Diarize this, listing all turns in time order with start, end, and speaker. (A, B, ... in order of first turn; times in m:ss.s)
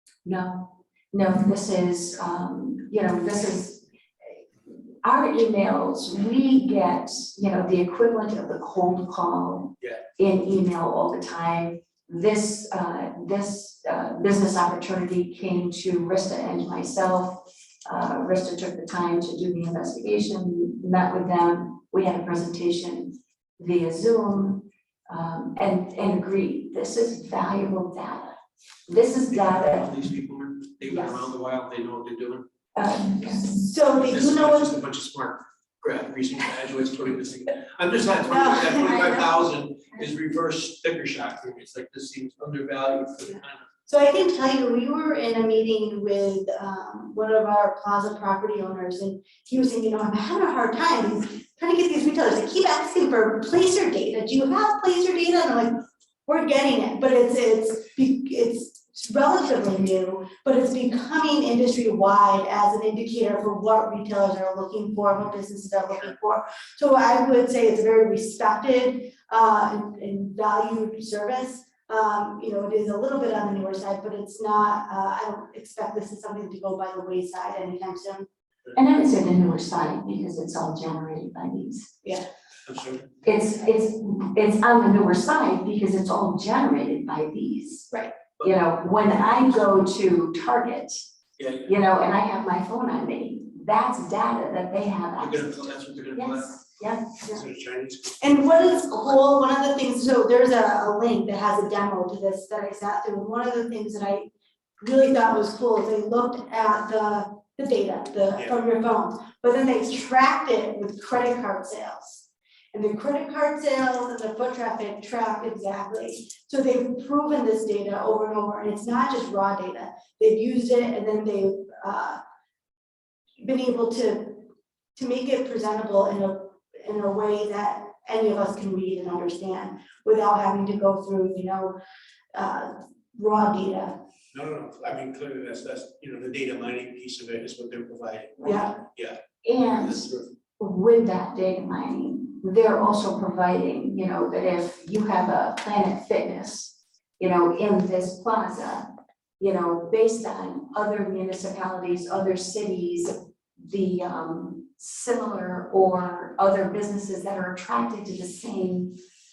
0:00.2-0:03.9 A
0:04.7-0:28.3 A
0:28.9-0:29.9 A
0:29.4-0:32.4 B
0:30.9-0:31.3 A
0:32.8-0:33.7 A
0:33.4-0:34.7 C
0:34.0-0:43.7 B
0:38.3-0:39.0 C
0:43.9-1:18.3 C
1:18.8-1:22.0 A
1:22.7-1:23.1 B
1:23.2-1:31.0 A
1:31.4-1:31.8 B
1:31.6-1:35.6 A
1:35.2-1:36.6 B
1:36.1-1:37.2 A
1:37.2-1:39.1 B
1:38.2-1:44.3 C
1:44.8-2:02.2 C
2:03.4-2:11.8 C
2:12.3-2:14.0 C
2:14.3-2:20.3 B
2:18.4-2:18.7 C
2:19.4-2:20.1 A
2:20.6-2:28.9 A
2:29.4-2:39.0 A